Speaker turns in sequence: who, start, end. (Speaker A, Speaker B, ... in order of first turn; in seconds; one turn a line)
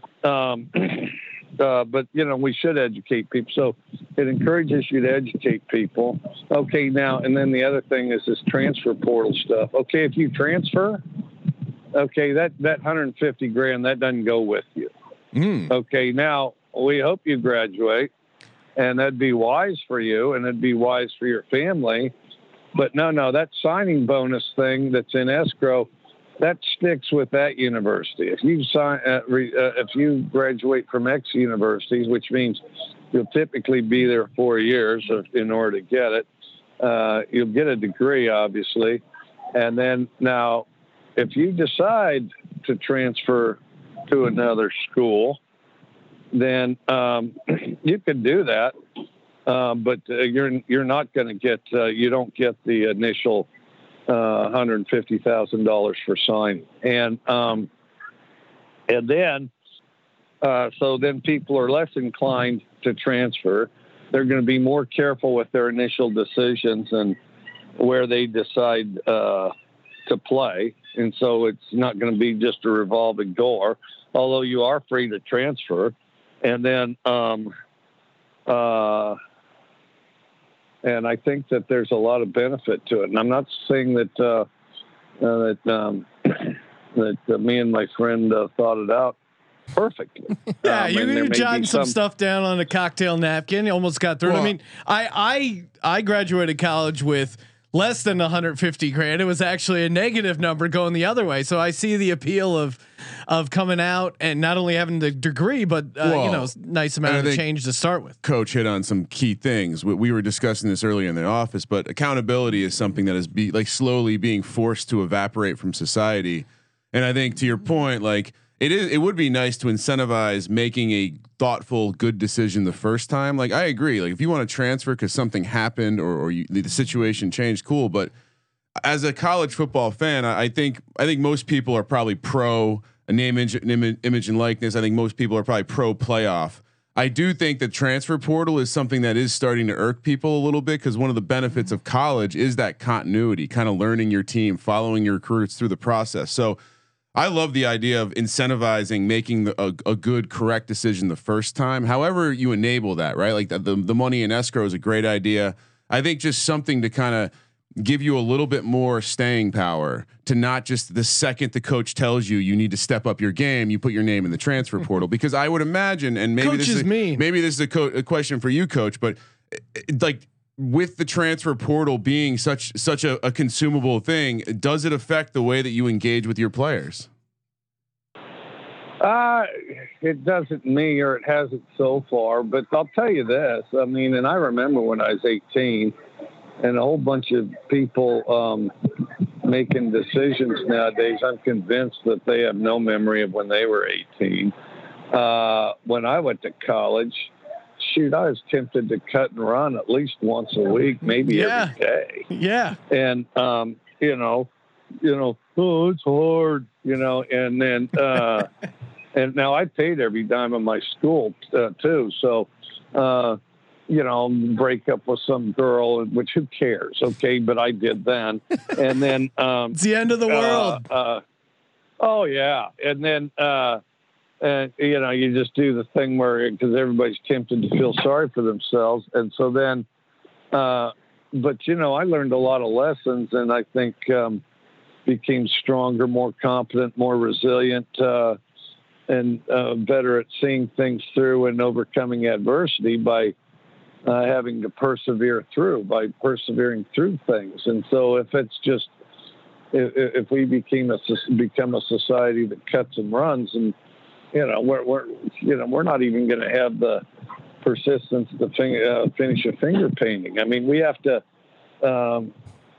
Speaker A: 0.2-11.0
Speaker A: 11.9-14.9
Speaker B: 15.3-15.7
Speaker A: 15.7-18.1
Speaker A: 18.8-22.1
Speaker A: 22.7-25.9
Speaker A: 26.4-32.6
Speaker A: 33.1-36.3
Speaker A: 36.8-39.0
Speaker A: 39.5-45.4
Speaker A: 46.3-48.7
Speaker A: 49.5-53.5
Speaker A: 54.1-57.7
Speaker A: 58.9-59.5
Speaker A: 60.4-67.2
Speaker A: 67.8-69.5
Speaker A: 70.1-77.5
Speaker A: 78.5-79.2
Speaker A: 80.8-84.5
Speaker A: 85.2-89.2
Speaker A: 89.7-91.9
Speaker B: 90.6-108.2
Speaker C: 94.2-94.5
Speaker C: 106.0-106.5
Speaker C: 107.0-107.4
Speaker C: 108.2-128.1
Speaker C: 128.8-146.6
Speaker C: 147.2-177.1
Speaker B: 166.4-167.2
Speaker A: 179.0-185.9
Speaker A: 186.6-194.5
Speaker A: 195.1-202.3
Speaker B: 201.3-201.7
Speaker B: 202.3-202.8
Speaker A: 202.9-204.5
Speaker A: 205.0-208.5
Speaker A: 209.1-219.8
Speaker B: 219.7-220.8
Speaker A: 220.3-221.2
Speaker A: 222.0-223.8
Speaker A: 224.4-229.9
Speaker A: 230.5-234.4
Speaker A: 235.1-238.4
Speaker A: 239.1-243.3
Speaker A: 244.1-248.9
Speaker A: 249.7-253.7
Speaker A: 254.3-257.0
Speaker A: 257.6-261.2
Speaker A: 261.8-262.3